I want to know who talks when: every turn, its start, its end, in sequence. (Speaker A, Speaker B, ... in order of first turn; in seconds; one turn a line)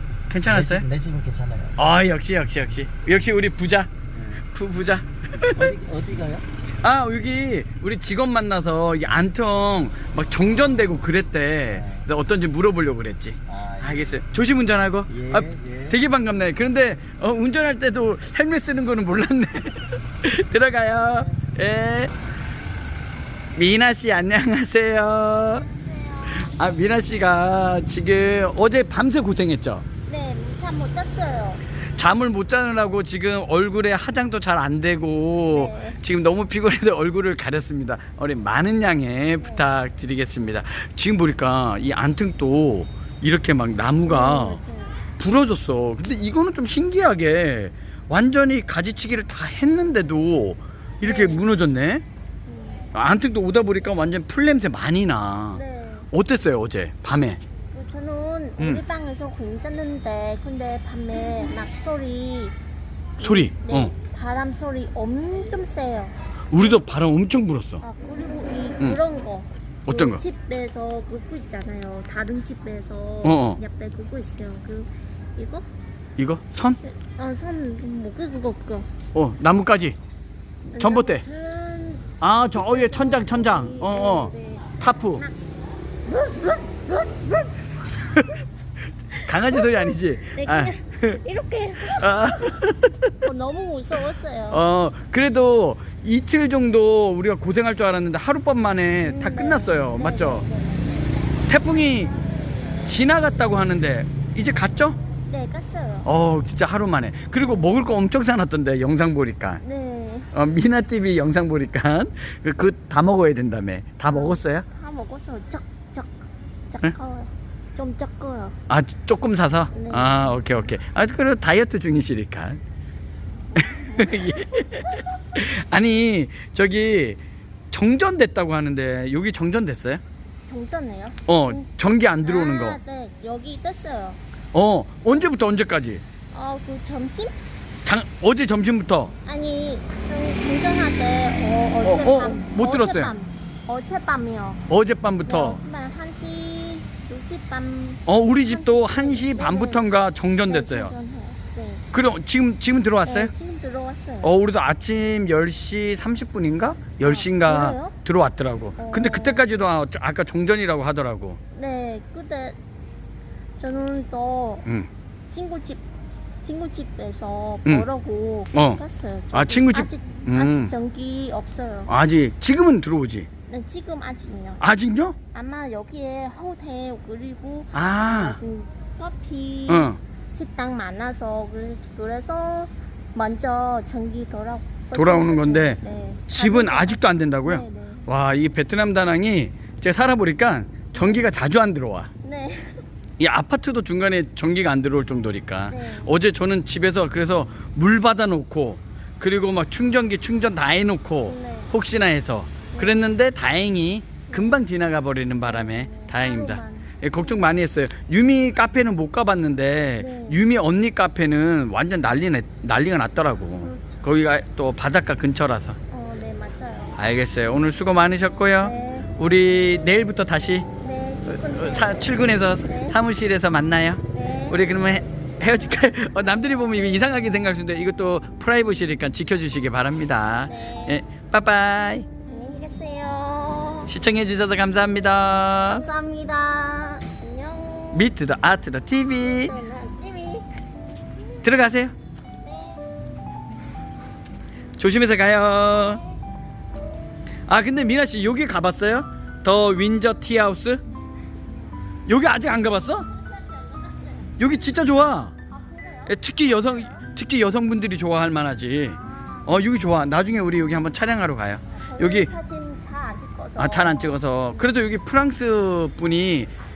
Speaker A: 0.3-0.8
Speaker B: 0.4-1.8
Speaker A: 1.8-5.8
Speaker B: 5.4-6.5
Speaker A: 6.8-22.1
Speaker B: 11.7-12.0
Speaker B: 13.5-14.1
Speaker B: 15.1-16.0
Speaker A: 23.5-25.7
Speaker C: 25.4-26.6
Speaker A: 26.3-29.9
Speaker C: 30.1-31.6
Speaker A: 32.0-44.6
Speaker C: 35.5-36.0
Speaker C: 39.4-39.7
Speaker C: 44.1-45.0
Speaker A: 45.2-52.0
Speaker C: 51.0-51.5
Speaker C: 52.5-52.9
Speaker A: 52.9-57.4
Speaker C: 55.5-56.1
Speaker C: 57.7-62.6
Speaker A: 58.6-58.8
Speaker C: 63.2-66.8
Speaker A: 63.2-63.9
Speaker A: 66.5-67.8
Speaker C: 67.8-75.7
Speaker A: 69.9-70.2
Speaker A: 73.2-73.6
Speaker A: 76.2-76.8
Speaker C: 76.8-78.9
Speaker A: 79.1-80.0
Speaker C: 80.7-85.4
Speaker A: 80.8-81.2
Speaker A: 82.2-85.2
Speaker C: 86.1-87.5
Speaker A: 88.0-88.3
Speaker A: 89.2-91.2
Speaker C: 89.3-92.3
Speaker A: 91.8-93.2
Speaker C: 93.2-94.7
Speaker A: 94.5-100.5
Speaker C: 99.0-101.3
Speaker A: 101.5-102.1
Speaker A: 102.8-105.0
Speaker C: 105.3-106.1
Speaker A: 106.0-109.6
Speaker C: 109.6-110.3
Speaker A: 110.3-114.7
Speaker C: 114.1-116.1
Speaker C: 116.7-118.6
Speaker A: 118.7-122.6
Speaker C: 119.7-120.2
Speaker A: 123.5-127.2
Speaker C: 123.6-124.8
Speaker A: 127.7-130.0
Speaker C: 130.5-131.6
Speaker A: 131.3-132.8
Speaker C: 132.2-134.2
Speaker A: 134.5-136.0
Speaker C: 136.3-137.3
Speaker A: 137.8-139.1
Speaker C: 139.3-144.6
Speaker A: 141.8-143.1
Speaker A: 144.7-145.6
Speaker C: 145.3-149.8
Speaker A: 148.1-150.9
Speaker C: 150.5-151.8
Speaker A: 151.9-153.3
Speaker C: 153.1-154.3
Speaker A: 154.2-161.4
Speaker C: 157.1-158.0
Speaker C: 158.8-159.5
Speaker C: 161.5-162.6
Speaker C: 163.6-164.7
Speaker C: 165.3-165.8
Speaker C: 166.4-171.9
Speaker A: 168.5-168.8
Speaker A: 169.3-170.7
Speaker A: 171.9-173.3
Speaker C: 173.5-174.6
Speaker A: 174.6-175.2
Speaker C: 175.3-188.1
Speaker A: 177.7-178.4
Speaker A: 179.7-180.0
Speaker A: 184.9-192.1
Speaker C: 190.9-191.3
Speaker C: 192.2-192.8
Speaker A: 193.2-215.8
Speaker C: 195.7-196.1
Speaker C: 201.2-201.7
Speaker C: 202.7-203.0
Speaker C: 204.3-204.6
Speaker C: 205.4-207.5
Speaker C: 210.0-210.4
Speaker C: 213.6-214.0
Speaker C: 215.9-217.0
Speaker A: 217.0-220.7
Speaker C: 218.6-219.1
Speaker C: 220.8-223.0
Speaker A: 221.3-232.1
Speaker C: 224.1-224.7
Speaker C: 230.4-231.0
Speaker C: 232.3-233.9
Speaker A: 233.9-235.8
Speaker C: 235.7-238.1
Speaker A: 237.9-239.6
Speaker C: 239.2-240.5
Speaker A: 241.4-241.9
Speaker C: 242.4-242.9
Speaker A: 244.8-246.0
Speaker A: 247.5-250.8
Speaker A: 252.1-253.1
Speaker C: 253.0-254.4
Speaker A: 254.4-255.3
Speaker C: 255.5-257.1
Speaker A: 256.1-262.3
Speaker C: 258.9-259.6
Speaker C: 261.8-264.7
Speaker A: 263.6-266.5